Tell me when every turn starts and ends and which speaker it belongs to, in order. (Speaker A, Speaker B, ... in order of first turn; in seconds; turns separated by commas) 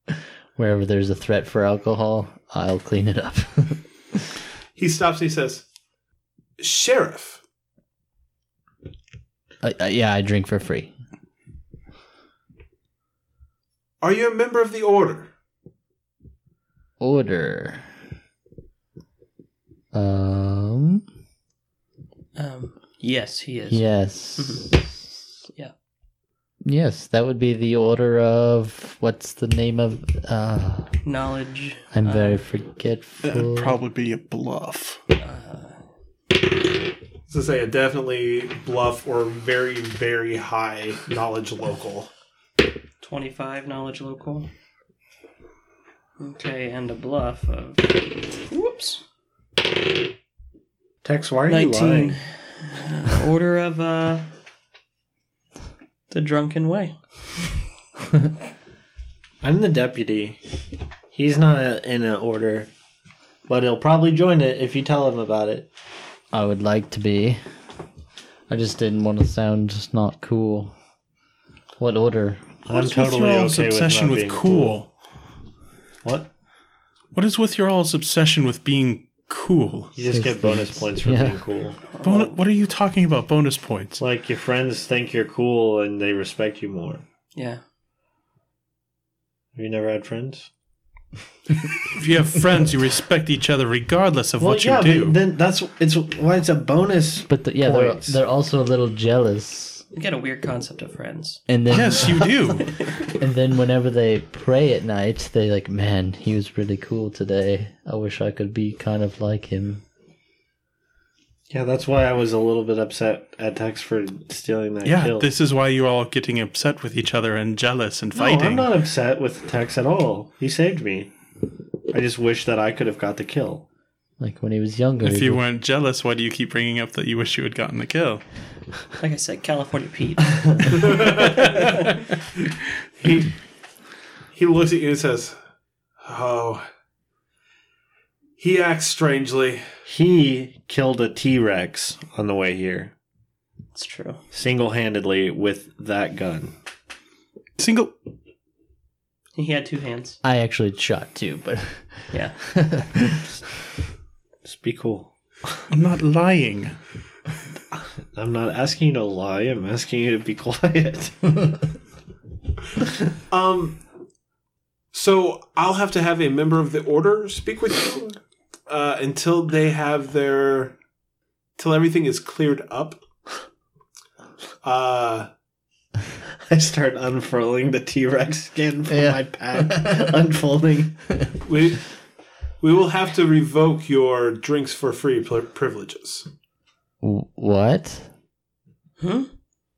Speaker A: 0.6-4.2, Speaker B: 4.8-5.7, Speaker B: 6.6-7.4, Speaker A: 9.6-10.9, Speaker B: 14.0-15.3, Speaker A: 17.0-17.9, Speaker A: 19.9-21.1, Speaker C: 22.4-24.8, Speaker A: 23.7-25.1, Speaker A: 26.6-31.0, Speaker C: 31.1-32.4, Speaker A: 31.9-33.8, Speaker D: 33.2-35.0, Speaker C: 35.2-35.9, Speaker B: 37.3-42.1, Speaker C: 43.0-44.5, Speaker C: 46.2-49.0, Speaker E: 51.0-52.2, Speaker C: 51.5-54.3, Speaker C: 56.1-57.0, Speaker E: 59.4-60.4, Speaker E: 61.1-62.7, Speaker E: 63.5-65.7, Speaker A: 66.3-67.4, Speaker A: 68.5-70.7, Speaker A: 71.8-72.4, Speaker E: 72.7-74.8, Speaker D: 72.7-74.9, Speaker E: 76.0-76.3, Speaker D: 77.1-79.9, Speaker E: 79.9-81.8, Speaker A: 80.1-81.4, Speaker C: 81.9-82.4, Speaker D: 82.0-84.0, Speaker E: 84.0-87.0, Speaker C: 87.3-87.6, Speaker E: 89.5-90.5, Speaker D: 91.8-95.2, Speaker E: 94.4-98.2, Speaker A: 97.3-99.8, Speaker C: 99.9-101.4, Speaker A: 101.5-102.4, Speaker D: 101.7-102.7, Speaker A: 103.1-109.8, Speaker E: 111.5-115.3, Speaker D: 114.8-118.7, Speaker E: 118.2-121.1, Speaker E: 121.9-123.7, Speaker A: 124.2-125.4, Speaker D: 125.0-128.2, Speaker C: 129.0-131.8, Speaker B: 130.8-131.5, Speaker B: 133.0-133.3, Speaker B: 134.3-135.4, Speaker B: 136.0-136.7, Speaker B: 138.4-139.6, Speaker E: 139.9-142.9, Speaker C: 143.8-144.2, Speaker E: 144.3-146.5, Speaker D: 147.6-147.9, Speaker C: 149.3-150.2, Speaker A: 150.2-153.3, Speaker C: 152.1-152.4, Speaker E: 154.4-155.6, Speaker D: 155.7-156.8, Speaker E: 157.8-161.5, Speaker B: 163.3-163.8, Speaker B: 164.9-170.8, Speaker B: 171.6-173.0, Speaker B: 174.6-175.3, Speaker E: 176.5-181.0, Speaker A: 178.9-180.1, Speaker B: 181.4-181.9, Speaker B: 182.6-186.3, Speaker A: 187.0-188.1, Speaker C: 189.0-189.3